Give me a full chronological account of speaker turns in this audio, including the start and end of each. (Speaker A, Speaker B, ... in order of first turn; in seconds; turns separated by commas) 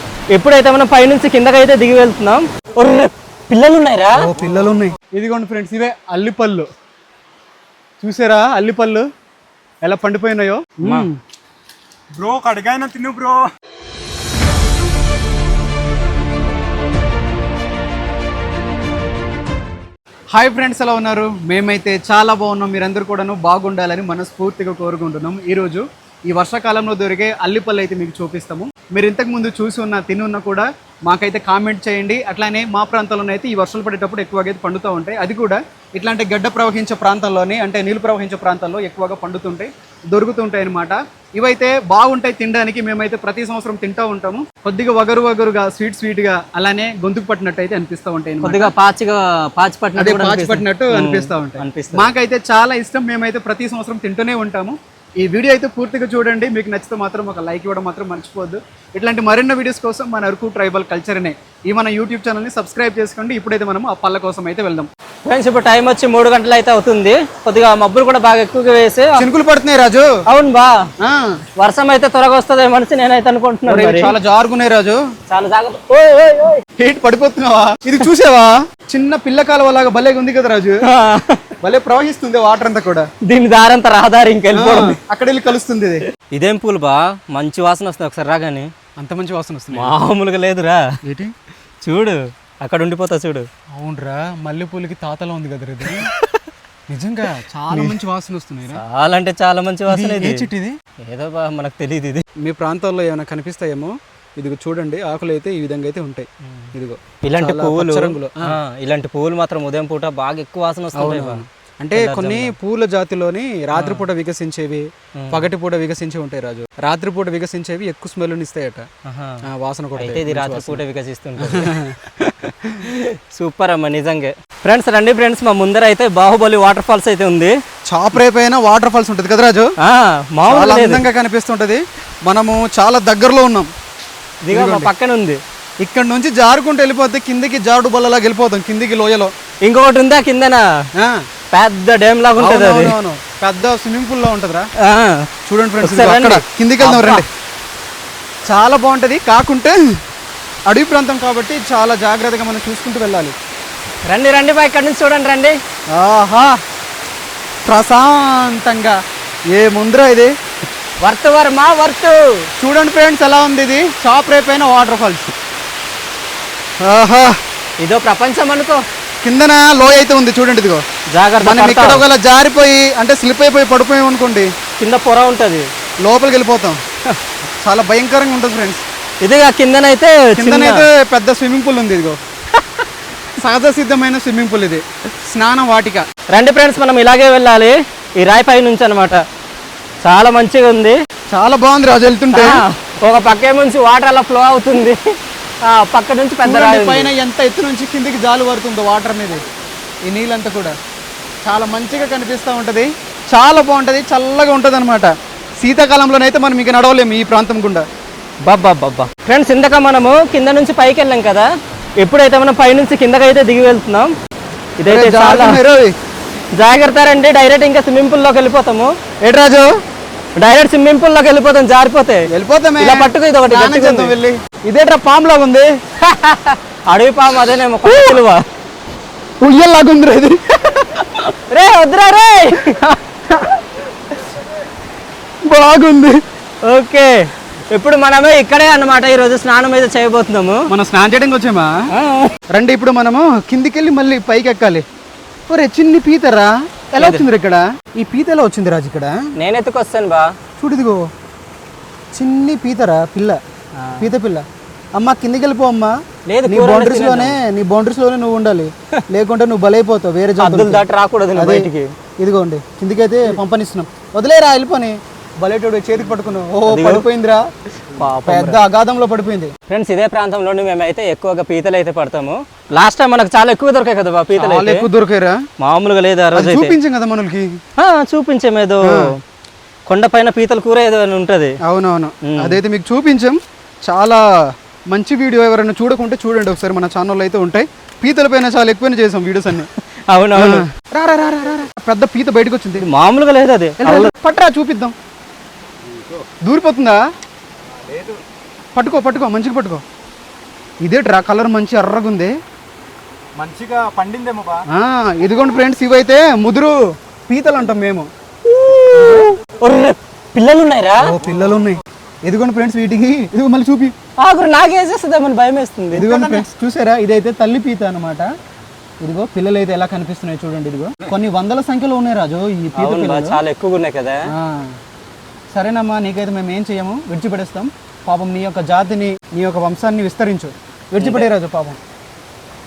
Speaker A: 0.3-4.3, Speaker B: 4.2-6.7, Speaker B: 8.0-9.0, Speaker B: 9.8-11.2, Speaker A: 10.8-11.1, Speaker C: 12.2-13.4, Speaker B: 20.3-48.7, Speaker A: 48.4-52.1, Speaker B: 50.0-64.9, Speaker A: 65.3-69.2, Speaker B: 69.2-70.1, Speaker A: 70.3-70.7, Speaker B: 71.0-71.4, Speaker A: 71.6-74.1, Speaker B: 73.7-75.0, Speaker A: 75.3-76.6, Speaker B: 76.8-80.8, Speaker A: 80.8-81.4, Speaker B: 81.6-83.1, Speaker A: 83.2-85.0, Speaker B: 84.5-86.0, Speaker A: 86.3-88.7, Speaker B: 89.0-89.9, Speaker A: 89.7-90.8, Speaker B: 91.0-91.3, Speaker A: 91.8-93.5, Speaker B: 93.7-96.1, Speaker A: 95.9-96.3, Speaker B: 96.9-98.8, Speaker A: 97.7-98.0, Speaker A: 98.7-100.5, Speaker B: 99.9-100.8, Speaker A: 101.0-102.2, Speaker B: 102.4-108.5, Speaker A: 107.2-111.4, Speaker B: 110.9-118.8, Speaker A: 111.9-112.5, Speaker A: 113.7-114.1, Speaker A: 115.2-115.4, Speaker A: 119.0-119.4, Speaker B: 119.5-120.8, Speaker A: 120.0-121.7, Speaker B: 121.4-122.9, Speaker A: 122.8-127.5, Speaker B: 127.9-129.7, Speaker A: 129.8-131.0, Speaker B: 130.4-133.7, Speaker A: 134.4-135.4, Speaker B: 134.5-134.9, Speaker B: 135.8-139.3, Speaker A: 139.6-140.6, Speaker A: 141.5-142.9, Speaker B: 142.4-144.7, Speaker A: 144.8-145.2, Speaker B: 145.5-147.3, Speaker A: 145.8-147.2, Speaker B: 148.5-149.8, Speaker B: 150.7-153.3, Speaker A: 154.1-155.5, Speaker B: 155.9-156.6, Speaker B: 157.7-159.0, Speaker B: 159.5-160.3, Speaker A: 161.0-162.2, Speaker B: 162.6-165.3, Speaker B: 166.8-167.3, Speaker A: 167.8-168.8, Speaker B: 169.2-170.8, Speaker A: 171.1-172.0, Speaker B: 171.4-174.5, Speaker A: 174.8-175.7, Speaker B: 176.0-176.8, Speaker B: 177.6-178.8, Speaker A: 179.2-180.9, Speaker B: 180.3-182.2, Speaker B: 183.4-186.0, Speaker A: 186.3-189.2, Speaker A: 190.0-190.9, Speaker B: 191.3-192.6, Speaker A: 192.3-195.0, Speaker A: 195.6-197.1, Speaker B: 196.4-199.4, Speaker B: 200.0-200.8, Speaker B: 201.4-207.8, Speaker A: 208.4-211.5, Speaker A: 212.0-214.1, Speaker A: 214.8-215.6, Speaker B: 214.8-215.9, Speaker A: 216.6-218.9, Speaker B: 219.2-219.7, Speaker A: 220.4-222.3, Speaker B: 222.3-225.7, Speaker A: 222.8-224.1, Speaker A: 226.0-228.4, Speaker B: 227.9-228.2, Speaker B: 229.4-231.3, Speaker A: 231.5-232.8, Speaker B: 232.7-233.6, Speaker B: 235.4-236.2, Speaker A: 236.7-237.2, Speaker A: 237.7-240.7, Speaker B: 240.7-241.7, Speaker A: 241.9-242.3, Speaker B: 242.5-244.8, Speaker B: 245.5-249.2, Speaker A: 247.0-247.2, Speaker A: 249.3-250.3, Speaker B: 250.6-251.1, Speaker B: 252.1-253.4, Speaker A: 253.8-254.1, Speaker B: 254.0-255.9, Speaker A: 256.3-257.4, Speaker B: 256.4-260.8, Speaker A: 260.4-261.9, Speaker B: 261.4-261.7, Speaker B: 262.2-267.4, Speaker A: 266.7-267.0, Speaker A: 267.9-268.6, Speaker B: 268.2-269.5, Speaker A: 269.7-274.9, Speaker B: 274.4-275.4, Speaker A: 275.6-276.7, Speaker B: 276.3-277.5, Speaker A: 277.8-279.1, Speaker B: 278.8-279.1, Speaker A: 279.9-281.6, Speaker B: 281.6-284.2, Speaker A: 282.2-282.6, Speaker B: 284.9-289.7, Speaker A: 289.6-290.6, Speaker B: 290.3-292.9, Speaker A: 292.8-294.1, Speaker B: 293.8-294.9, Speaker B: 296.4-297.0, Speaker C: 297.8-298.2, Speaker B: 298.7-299.8, Speaker B: 300.8-302.3, Speaker C: 303.4-304.6, Speaker B: 304.7-308.1, Speaker A: 308.5-311.1, Speaker B: 311.0-313.9, Speaker A: 314.2-316.4, Speaker B: 315.9-318.3, Speaker B: 319.0-323.4, Speaker A: 322.7-324.2, Speaker B: 324.3-324.7, Speaker B: 325.5-331.8, Speaker A: 331.0-331.3